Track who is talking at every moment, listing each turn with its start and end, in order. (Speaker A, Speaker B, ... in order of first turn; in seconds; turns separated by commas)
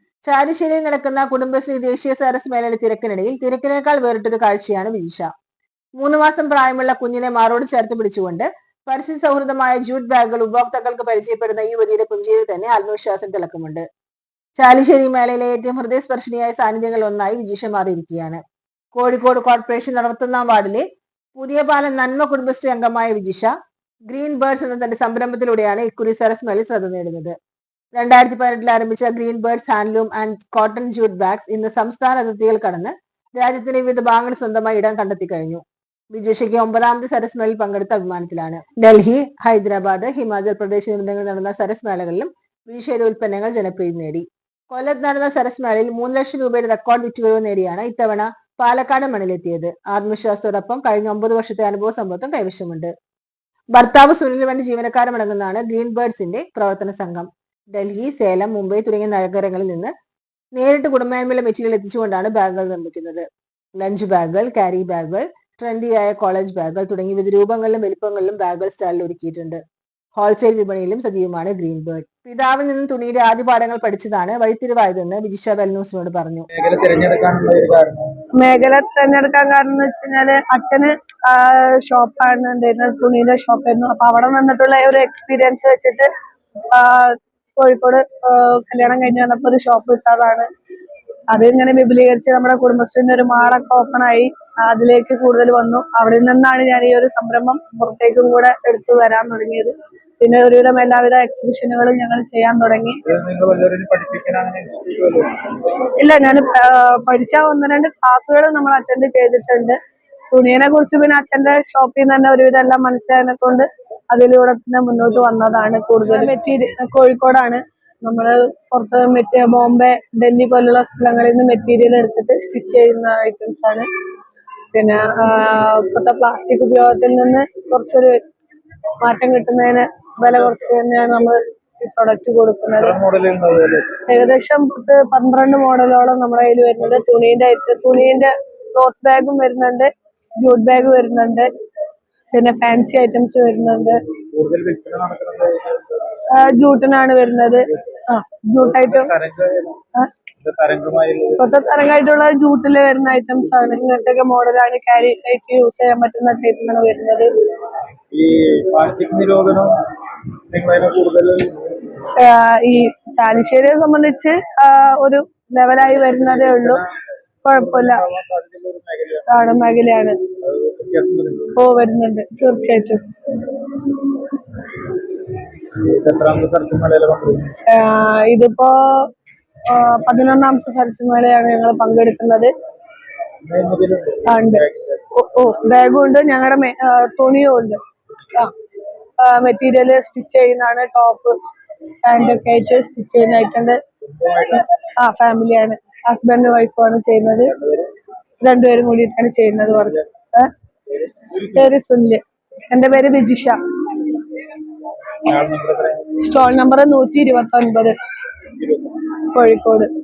Speaker A: 0.3-5.3, Speaker A: 6.0-13.8, Speaker A: 14.6-18.4, Speaker A: 18.9-23.5, Speaker A: 24.1-27.3, Speaker A: 27.9-35.6, Speaker A: 36.1-52.9, Speaker A: 53.8-59.9, Speaker A: 60.5-63.2, Speaker A: 63.8-69.6, Speaker A: 70.2-76.5, Speaker B: 76.5-78.2, Speaker C: 78.3-86.1, Speaker C: 86.7-90.5, Speaker C: 91.3-103.0, Speaker B: 103.0-105.6, Speaker C: 105.9-109.8, Speaker C: 110.3-123.9, Speaker C: 124.7-128.2, Speaker C: 129.0-133.0, Speaker B: 132.7-134.0, Speaker C: 134.1-141.5, Speaker C: 142.3-144.0, Speaker B: 144.3-146.2, Speaker C: 146.3-149.1, Speaker B: 148.6-149.8, Speaker B: 150.4-151.4, Speaker C: 151.4-157.3, Speaker B: 158.1-161.9, Speaker C: 162.2-166.8, Speaker B: 166.1-166.9, Speaker C: 167.4-168.0, Speaker B: 167.6-169.3, Speaker C: 169.3-170.2, Speaker B: 170.4-171.6, Speaker C: 171.6-173.3, Speaker B: 175.6-177.5, Speaker C: 177.7-179.1, Speaker C: 179.7-182.5, Speaker B: 183.4-185.0, Speaker C: 184.2-187.8, Speaker C: 189.2-191.4, Speaker C: 192.0-193.8, Speaker B: 194.0-194.7, Speaker C: 195.0-197.5, Speaker B: 197.5-197.9, Speaker C: 198.4-200.5, Speaker B: 200.9-201.7, Speaker C: 201.5-204.2, Speaker B: 205.2-206.2, Speaker C: 206.2-208.0, Speaker B: 208.6-208.9, Speaker C: 209.1-209.9